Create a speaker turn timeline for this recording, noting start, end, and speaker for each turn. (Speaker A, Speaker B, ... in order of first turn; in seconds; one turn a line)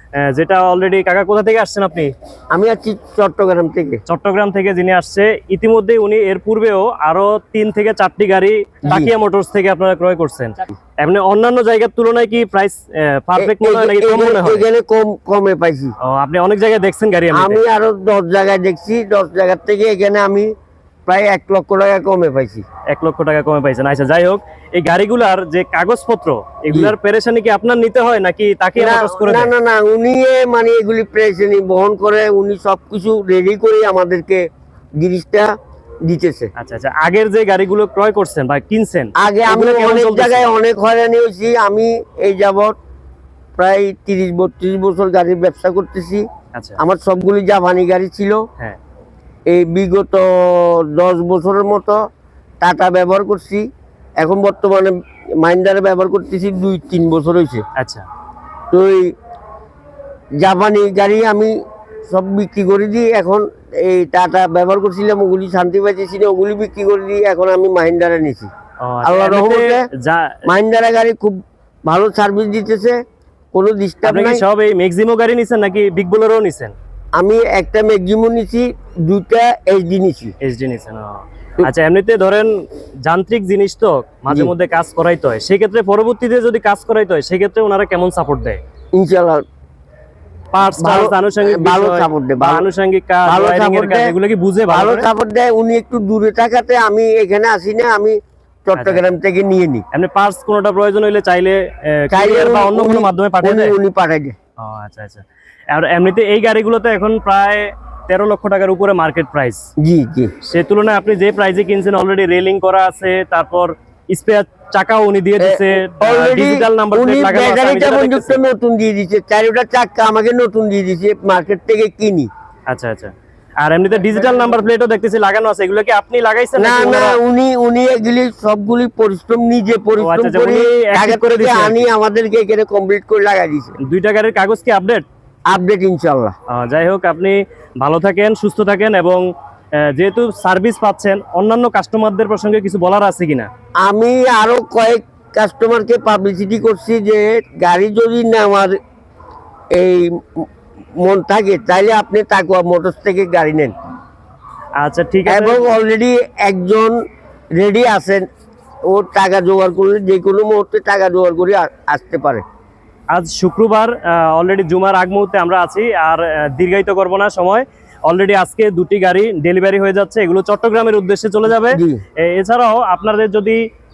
Speaker A: 0.2-2.1
Speaker B: 2.5-4.0
Speaker A: 4.1-14.7
Speaker B: 8.9-9.1
Speaker B: 13.4-15.9
Speaker A: 16.0-17.6
Speaker B: 17.3-20.5
Speaker B: 21.1-22.6
Speaker A: 22.9-29.5
Speaker B: 28.8-34.5
Speaker B: 35.0-35.5
Speaker B: 36.1-36.5
Speaker A: 36.6-40.5
Speaker B: 39.2-42.8
Speaker B: 43.6-46.2
Speaker A: 46.5-46.8
Speaker B: 46.8-48.4
Speaker B: 49.5-52.0
Speaker B: 52.6-53.7
Speaker B: 54.2-57.6
Speaker A: 57.8-58.1
Speaker B: 58.7-59.1
Speaker B: 60.4-61.5
Speaker B: 62.1-68.5
Speaker A: 68.8-70.5
Speaker B: 69.0-69.8
Speaker B: 70.5-73.0
Speaker B: 73.5-74.4
Speaker A: 74.0-76.8
Speaker B: 77.2-80.3
Speaker A: 80.4-88.6
Speaker B: 89.0-89.4
Speaker A: 90.5-95.1
Speaker B: 90.8-92.7
Speaker B: 93.3-94.1
Speaker B: 94.7-99.8
Speaker A: 98.8-99.1
Speaker A: 99.9-103.7
Speaker B: 102.1-104.4
Speaker A: 104.6-109.7
Speaker B: 109.8-110.3
Speaker A: 110.4-118.4
Speaker B: 115.4-122.3
Speaker A: 122.7-127.2
Speaker B: 126.6-133.8
Speaker A: 130.0-131.9
Speaker A: 133.8-135.1
Speaker B: 135.5-136.3
Speaker A: 136.5-139.2
Speaker A: 139.8-143.5
Speaker B: 143.8-148.8
Speaker B: 149.8-150.4
Speaker B: 151.0-153.7
Speaker A: 154.8-155.6
Speaker B: 155.3-157.0
Speaker B: 157.6-158.3
Speaker B: 158.9-162.4
Speaker A: 163.1-173.6
Speaker B: 171.7-172.0